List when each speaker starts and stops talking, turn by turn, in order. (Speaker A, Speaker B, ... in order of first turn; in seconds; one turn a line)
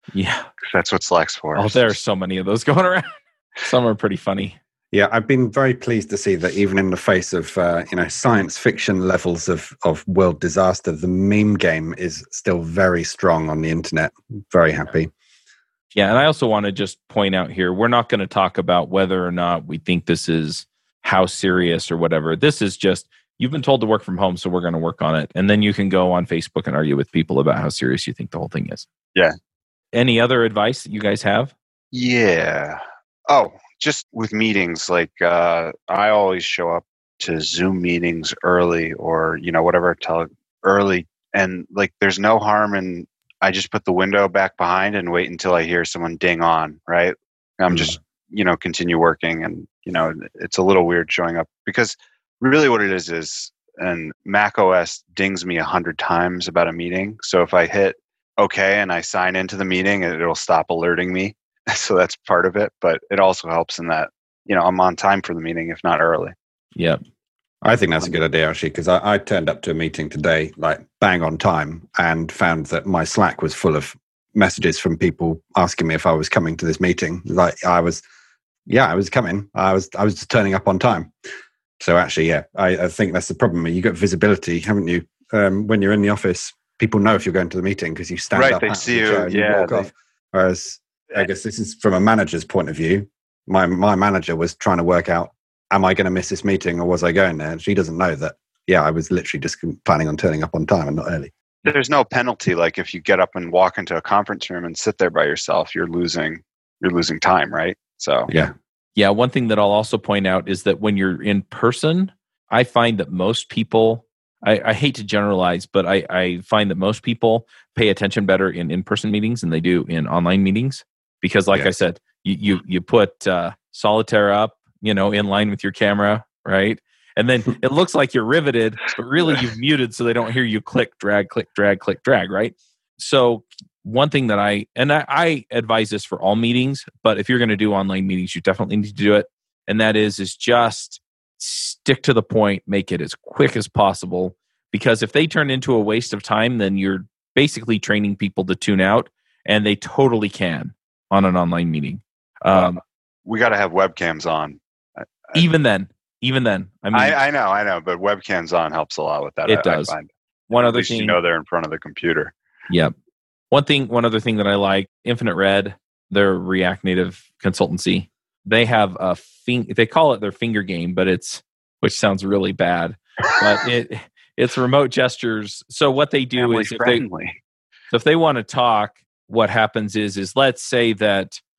Speaker A: 0.1-0.5
Speaker B: 0.6-1.9
Speaker A: 1.5-3.1
Speaker A: 3.6-4.5
Speaker C: 4.9-15.1
Speaker A: 15.9-28.9
Speaker A: 29.9-31.5
Speaker B: 31.9-66.3
Speaker C: 67.6-78.0
Speaker C: 78.7-81.1
Speaker C: 81.8-101.3
Speaker B: 88.3-89.9
Speaker B: 101.6-108.3
Speaker C: 108.3-108.5
Speaker A: 109.0-152.8
Speaker B: 152.5-155.5
Speaker A: 155.3-157.2
Speaker B: 156.9-162.3
Speaker A: 159.4-159.9
Speaker A: 160.5-161.2
Speaker A: 162.7-162.9
Speaker A: 163.5-177.0
Speaker B: 176.4-177.4
Speaker A: 177.9-181.4